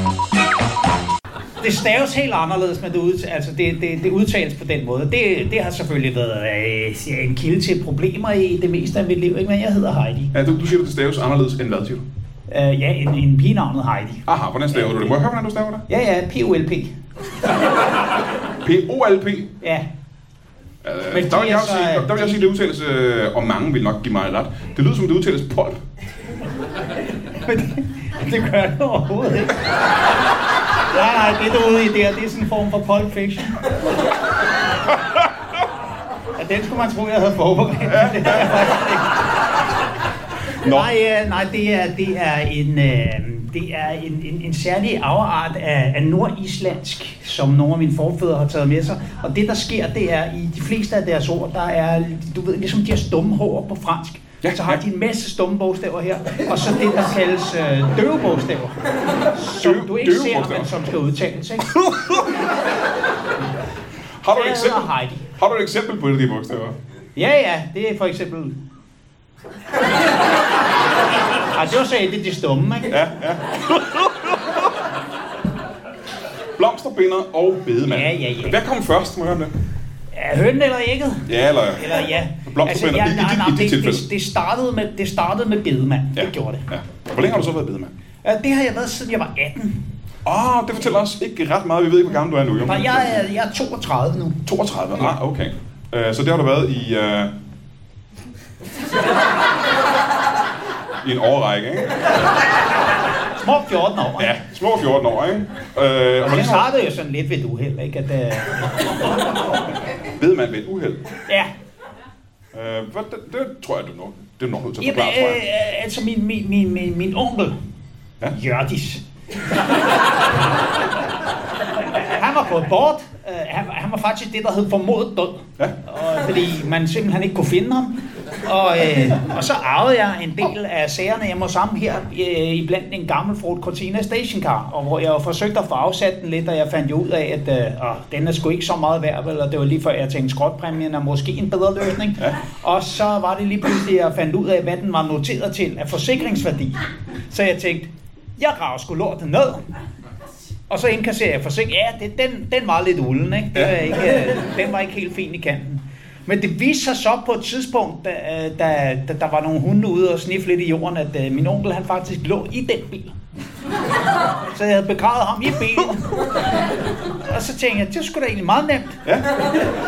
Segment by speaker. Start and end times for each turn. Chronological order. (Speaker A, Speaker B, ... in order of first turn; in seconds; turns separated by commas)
Speaker A: 1.6-10.3, Speaker B: 10.3-12.1, Speaker A: 12.5-14.2, Speaker B: 14.3-15.8, Speaker A: 14.8-15.1, Speaker A: 15.9-16.9, Speaker B: 18.6-19.5, Speaker A: 19.6-19.9, Speaker B: 20.8-25.8, Speaker A: 21.1-22.5, Speaker A: 27.3-29.6, Speaker A: 30.9-33.6, Speaker A: 36.4-39.2, Speaker B: 37.9-38.6, Speaker A: 40.6-61.7, Speaker B: 54.4-54.8, Speaker B: 59.6-60.7, Speaker B: 61.8-62.2, Speaker B: 64.2-66.8, Speaker A: 64.3-65.2, Speaker A: 67.2-68.6, Speaker A: 71.5-72.9, Speaker B: 72.9-74.7, Speaker B: 76.6-79.5, Speaker A: 77.9-78.6, Speaker A: 80.1-86.7, Speaker B: 81.3-84.1, Speaker B: 86.2-87.9, Speaker A: 88.2-89.9, Speaker B: 90.2-93.2, Speaker A: 92.7-94.4, Speaker B: 94.5-97.3, Speaker B: 101.0-102.0, Speaker A: 103.4-104.3, Speaker B: 104.2-106.7, Speaker A: 106.2-109.0, Speaker B: 110.2-111.1, Speaker B: 112.5-115.4, Speaker A: 114.8-117.6, Speaker A: 118.3-119.0, Speaker A: 121.8-149.6, Speaker A: 150.7-163.1, Speaker A: 164.5-166.2, Speaker A: 167.2-169.0, Speaker B: 169.1-169.3